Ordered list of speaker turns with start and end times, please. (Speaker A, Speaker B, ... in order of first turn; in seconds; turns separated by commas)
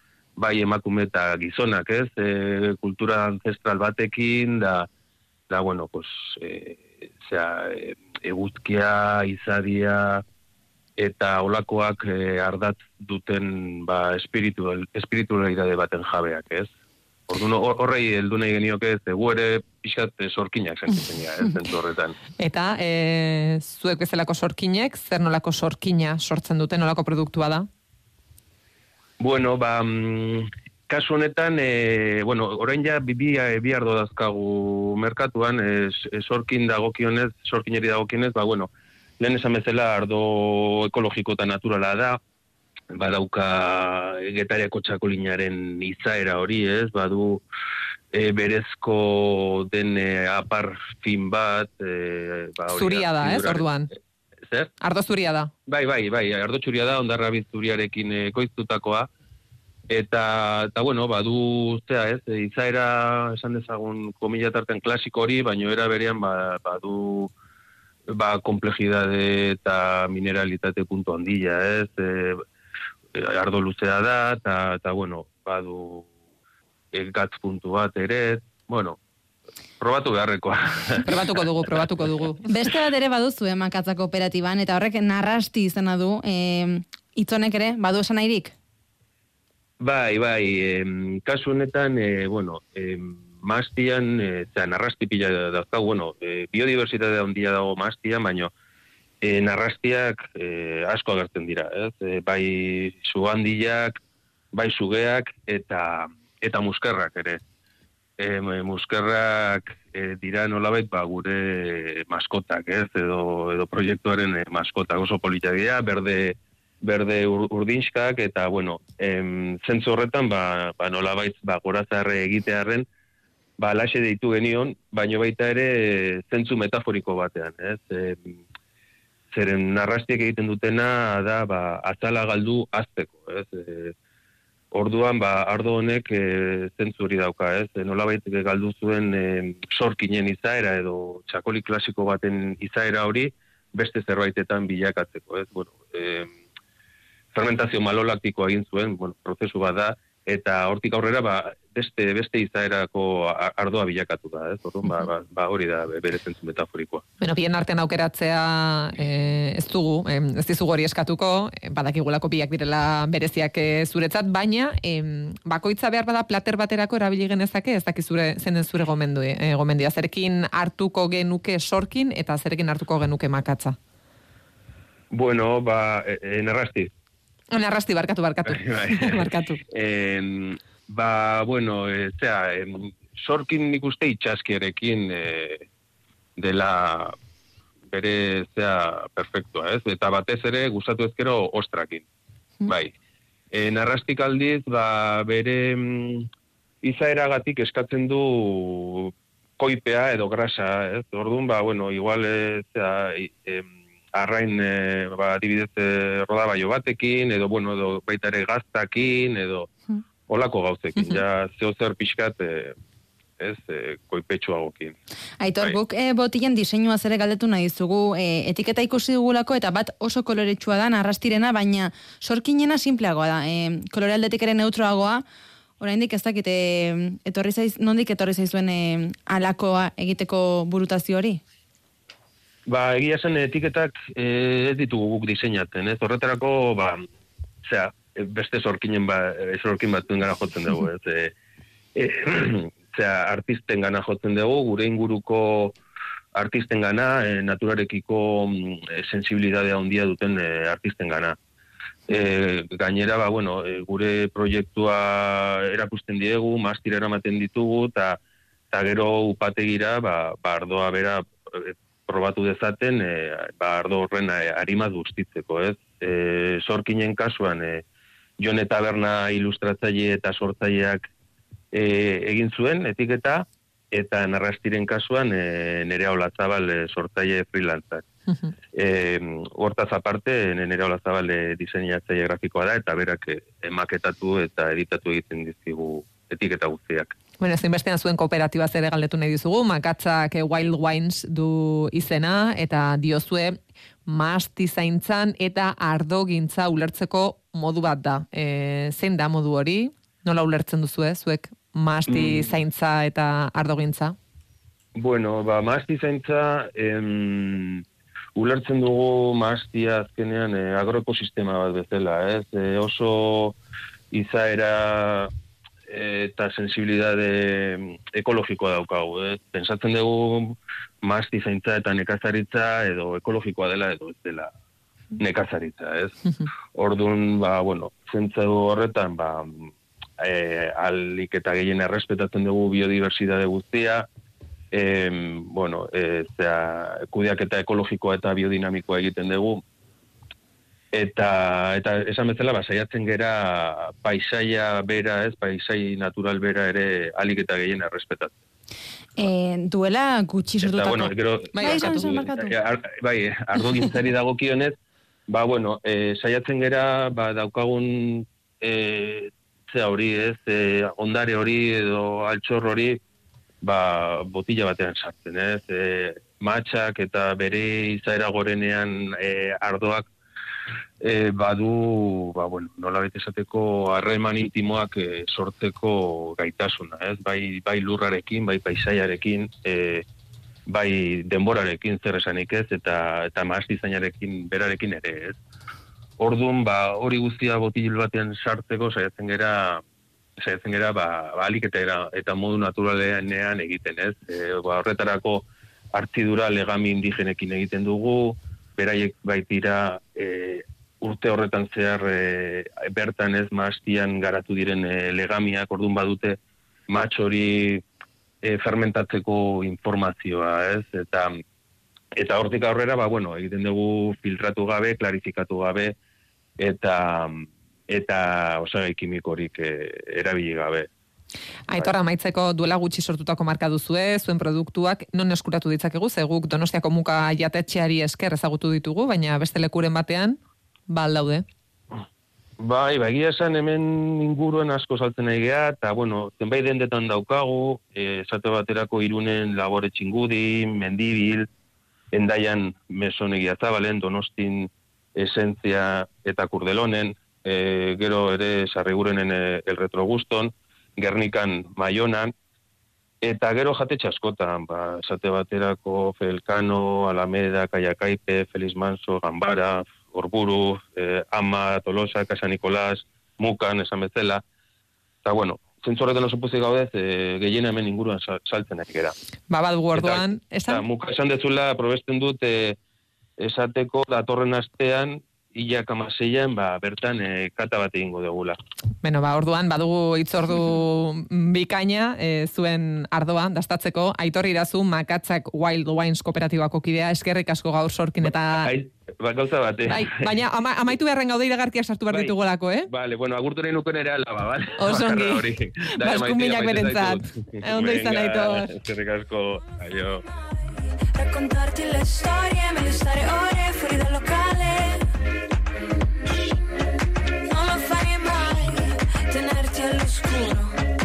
Speaker A: 0.4-4.9, Speaker A: 5.5-10.2, Speaker A: 11.0-16.7, Speaker A: 17.3-22.2, Speaker B: 22.4-27.7, Speaker A: 29.2-42.2, Speaker A: 42.9-47.4, Speaker A: 48.1-53.7, Speaker B: 52.7-53.9, Speaker B: 54.8-55.5, Speaker A: 55.7-59.1, Speaker A: 59.9-67.3, Speaker A: 68.1-72.4, Speaker A: 73.1-76.1, Speaker A: 76.9-79.0, Speaker A: 79.8-81.2, Speaker B: 81.0-82.5, Speaker C: 82.5-88.5, Speaker A: 89.8-98.5, Speaker A: 99.2-104.0, Speaker A: 104.5-107.4, Speaker A: 108.2-122.8, Speaker A: 123.6-128.4, Speaker A: 129.3-133.9, Speaker A: 134.7-146.3, Speaker A: 147.3-157.0, Speaker B: 157.2-173.8, Speaker A: 175.1-176.9, Speaker B: 177.5-179.6, Speaker A: 178.5-185.7, Speaker A: 186.4-187.2, Speaker A: 187.9-192.1, Speaker A: 192.7-192.9, Speaker A: 193.5-196.3, Speaker A: 196.8-209.7, Speaker A: 210.3-212.7, Speaker A: 213.4-214.9, Speaker C: 215.4-225.2, Speaker C: 225.8-231.4, Speaker A: 232.7-237.0, Speaker A: 237.6-241.3, Speaker A: 241.9-245.8, Speaker A: 246.3-251.3, Speaker A: 252.1-258.2, Speaker A: 258.7-267.8, Speaker A: 268.4-271.0, Speaker A: 271.7-278.0, Speaker A: 278.7-287.1, Speaker B: 287.4-293.6, Speaker B: 294.1-304.1, Speaker A: 302.1-302.5, Speaker A: 304.9-307.8, Speaker A: 308.4-313.6, Speaker A: 314.1-315.3, Speaker A: 315.9-324.5, Speaker A: 325.2-326.1, Speaker A: 326.7-334.1, Speaker A: 334.7-339.6, Speaker A: 340.9-348.4, Speaker C: 349.2-352.5, Speaker A: 350.6-354.8, Speaker B: 351.5-352.1, Speaker A: 355.3-363.0, Speaker A: 363.6-370.1, Speaker A: 371.0-380.0, Speaker A: 380.7-385.4, Speaker A: 386.2-389.8, Speaker A: 390.4-407.8, Speaker A: 408.4-411.4, Speaker A: 412.1-415.9, Speaker A: 416.6-420.9, Speaker B: 421.7-431.4, Speaker A: 432.6-441.5, Speaker A: 442.1-452.3, Speaker A: 453.2-464.4, Speaker A: 465.2-469.1, Speaker B: 469.5-470.8, Speaker A: 469.9-472.8, Speaker A: 473.4-478.6, Speaker B: 479.0-488.7, Speaker A: 488.3-490.2, Speaker B: 489.9-492.9, Speaker A: 492.9-500.2, Speaker B: 494.8-498.7, Speaker D: 501.1-505.1, Speaker D: 507.5-510.9